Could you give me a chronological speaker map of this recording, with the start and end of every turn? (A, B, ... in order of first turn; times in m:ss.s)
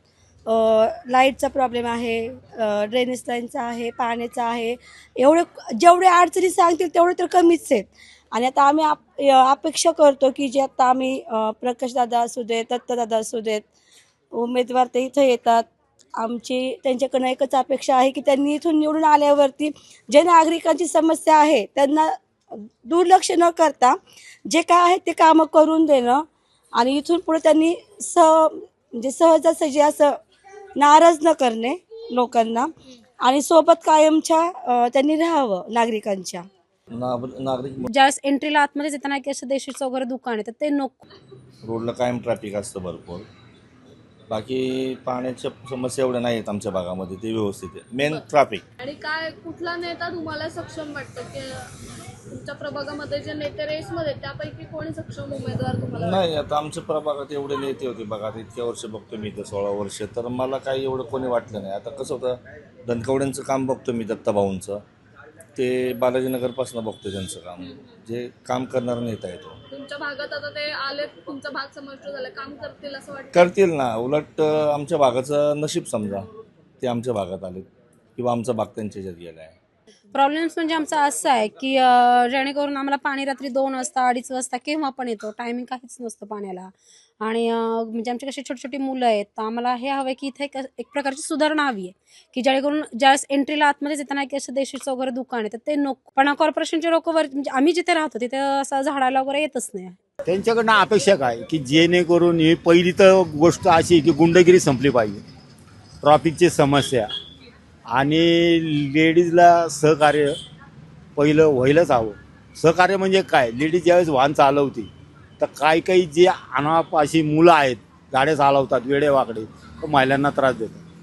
0:00.5-0:13.7 A
0:14.3-0:15.6 A
0:16.2-0:30.2 A
0:30.8-0:32.7 A
0:33.2-0:36.4 A
0:36.9-0:37.9 B
0:37.9-0:41.0 C
0:41.6-0:43.3 B
0:44.3-0:48.6 B
0:48.8-0:51.7 D
0:52.3-0:56.3 D
0:56.0-1:04.8 B
1:05.6-1:09.6 B
1:09.7-1:13.5 D
1:13.3-1:16.3 B
1:16.8-1:19.6 B
1:20.1-1:40.0 C
1:40.2-1:45.2 E
1:46.0-1:47.1 E
1:47.9-1:50.3 E
1:51.2-2:00.8 E